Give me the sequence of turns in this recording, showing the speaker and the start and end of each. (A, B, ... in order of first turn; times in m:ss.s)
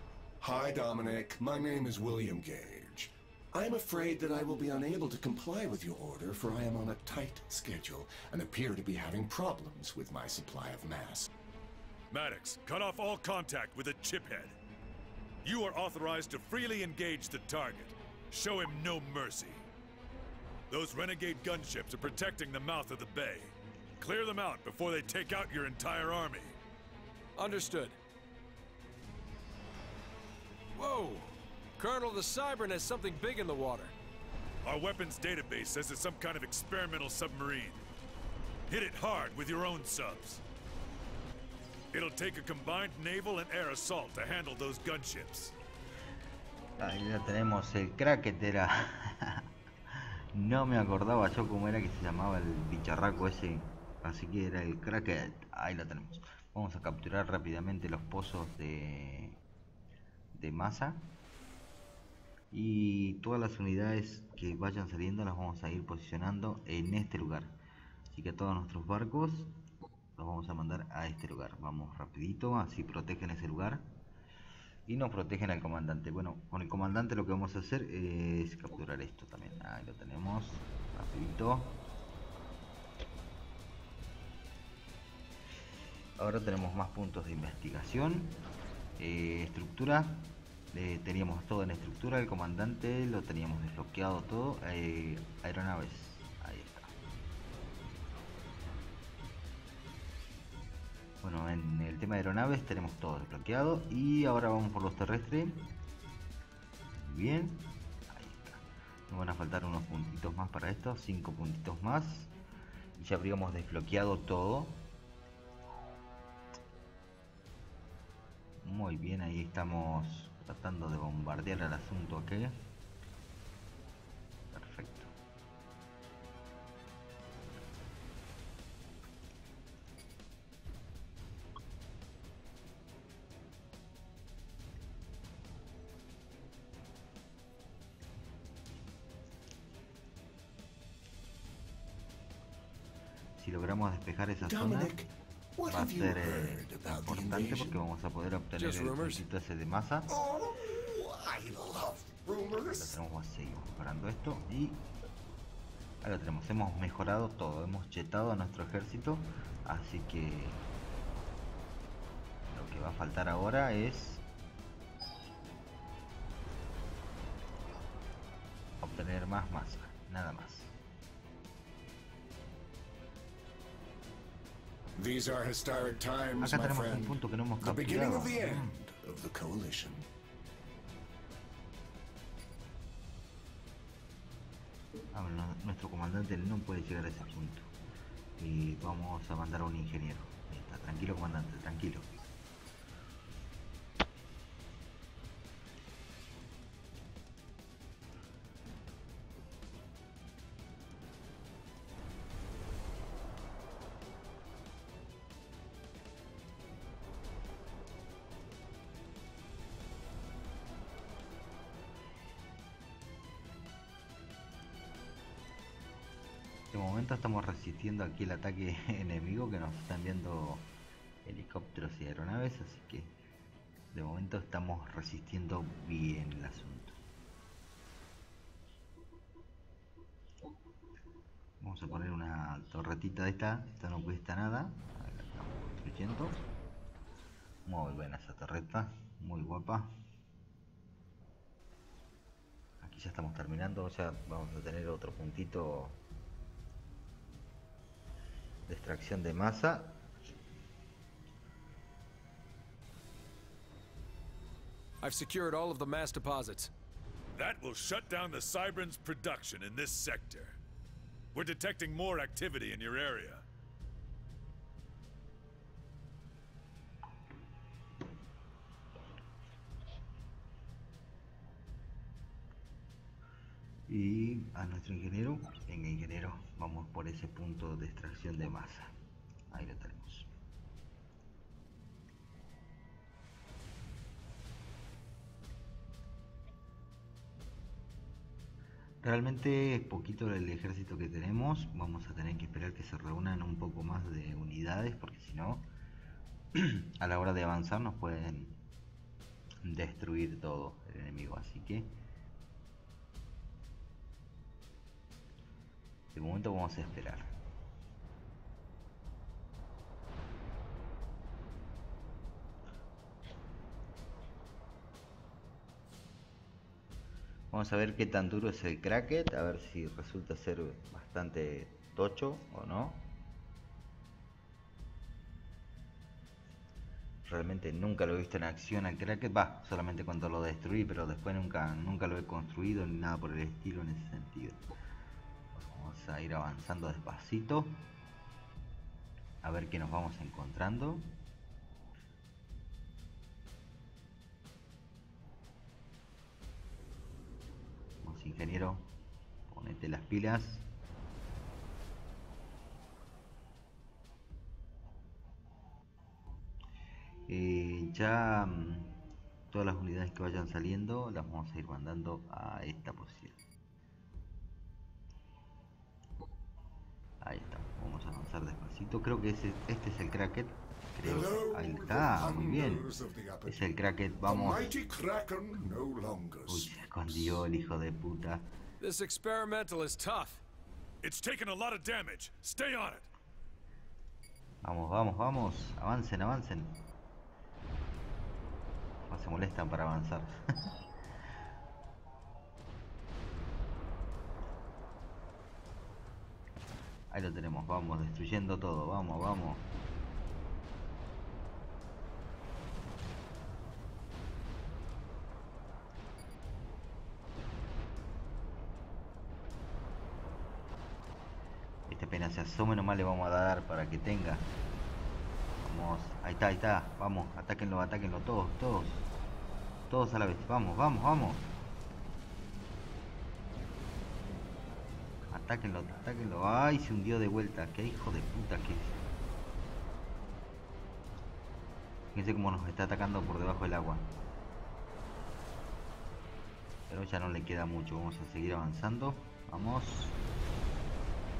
0:00.4-0:11.3 A
0:12.1-0:14.5 B
0:15.4-0:19.6 B
0:20.7-0:26.5 B
0:27.4-0:28.0 C
0:30.7-0:33.9 C
0:34.6-0:37.8 B
0:38.7-0:40.4 B
0:41.9-0:45.6 B
0:46.8-0:59.4 D
1:00.3-1:01.0 D
1:02.5-1:07.6 D
1:08.1-1:09.5 D
1:10.2-1:13.8 D
1:14.9-1:21.8 D
1:26.2-1:28.4 D
1:29.0-1:36.9 D
1:41.2-1:45.7 D
1:46.9-1:52.3 D
1:53.0-1:54.8 D
1:58.6-2:02.5 D
2:04.5-2:05.1 D
2:23.4-2:25.0 D
2:24.4-2:27.8 A
2:25.6-2:30.1 D
2:28.6-2:29.2 C
2:30.1-2:33.0 A
2:32.6-2:34.9 D
2:36.0-2:40.6 D
2:42.5-2:44.2 D
2:48.8-2:50.7 D
2:54.9-3:00.0 A
2:56.4-2:58.8 D
3:05.1-3:07.7 D
3:08.4-3:12.1 D
3:36.7-3:40.7 D
3:41.2-3:43.1 D
3:43.9-3:47.0 D
3:51.6-3:56.4 D
3:57.6-3:59.9 D
4:02.8-4:06.0 D
4:08.7-4:10.0 D
4:15.0-4:16.7 C
4:17.3-4:20.6 B
4:21.3-4:23.4 B
4:33.9-4:38.9 D
4:39.5-4:40.3 D
4:49.0-4:55.7 D
4:56.5-4:58.6 D
4:59.6-5:02.0 D
5:06.1-5:07.3 D
5:17.5-5:23.1 D
5:27.2-5:34.6 D
5:35.5-5:37.8 D
5:39.4-5:41.1 D
5:48.0-5:48.9 D
5:49.5-5:50.6 D
5:57.3-5:59.0 D
5:59.5-6:03.4 D
6:07.2-6:12.8 D
6:11.0-6:13.7 A
6:13.4-6:14.7 D
6:14.2-6:17.5 A
6:16.5-6:18.5 D
6:18.8-6:20.4 C
6:21.0-6:23.1 B
6:24.6-6:26.8 D
6:29.1-6:30.4 D
6:37.1-6:39.7 D
6:51.9-6:54.5 D
6:55.6-6:59.0 D
6:59.9-7:01.5 D
7:05.3-7:09.0 D
7:12.1-7:14.1 D
7:16.9-7:20.2 D